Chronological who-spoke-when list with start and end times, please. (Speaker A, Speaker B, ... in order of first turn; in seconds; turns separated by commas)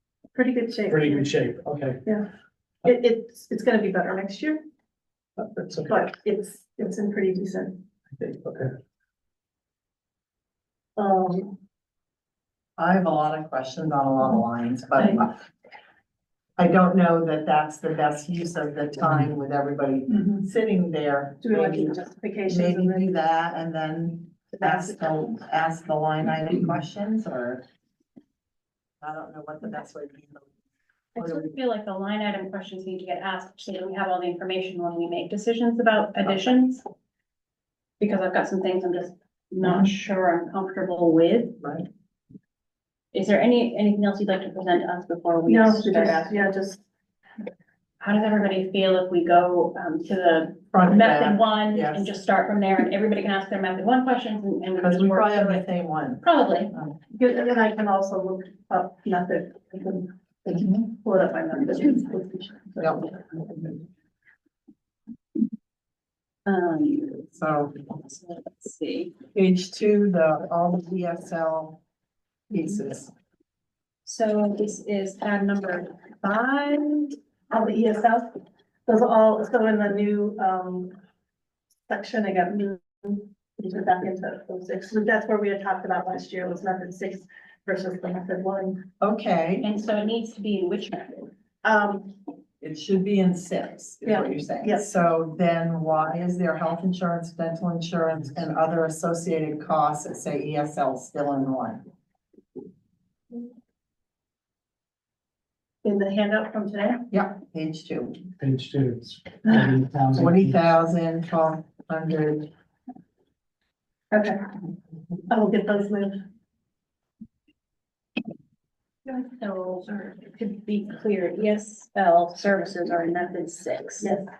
Speaker A: 0.3-1.2, Speaker B: 0.9-2.0, Speaker A: 2.8-4.6, Speaker B: 5.4-6.0, Speaker A: 5.9-7.8, Speaker B: 8.1-8.7, Speaker A: 11.0-11.6, Speaker C: 12.8-15.4, Speaker C: 16.6-27.6, Speaker A: 21.4-23.1, Speaker A: 24.6-25.1, Speaker C: 29.0-30.5, Speaker D: 31.1-36.8, Speaker C: 31.2-31.5, Speaker D: 38.0-41.6, Speaker C: 39.6-39.9, Speaker C: 41.6-41.9, Speaker D: 43.1-46.4, Speaker A: 45.5-46.8, Speaker D: 48.0-55.6, Speaker C: 50.7-52.1, Speaker C: 54.8-57.0, Speaker D: 56.2-56.7, Speaker A: 57.1-63.1, Speaker C: 60.5-60.9, Speaker C: 62.8-63.1, Speaker D: 66.5-67.3, Speaker C: 67.3-67.8, Speaker D: 67.9-69.1, Speaker C: 69.3-71.8, Speaker C: 72.5-73.1, Speaker D: 72.6-72.8, Speaker D: 74.0-77.2, Speaker A: 77.5-78.3, Speaker A: 78.8-80.9, Speaker A: 81.9-88.8, Speaker C: 89.0-89.7, Speaker D: 89.6-91.3, Speaker A: 91.6-92.1, Speaker C: 92.6-101.8, Speaker A: 94.0-94.8, Speaker A: 105.8-107.0, Speaker C: 107.1-108.2, Speaker B: 108.4-110.6, Speaker C: 110.1-112.5, Speaker A: 114.1-114.4, Speaker A: 115.3-116.2, Speaker D: 119.0-124.1, Speaker A: 124.0-124.2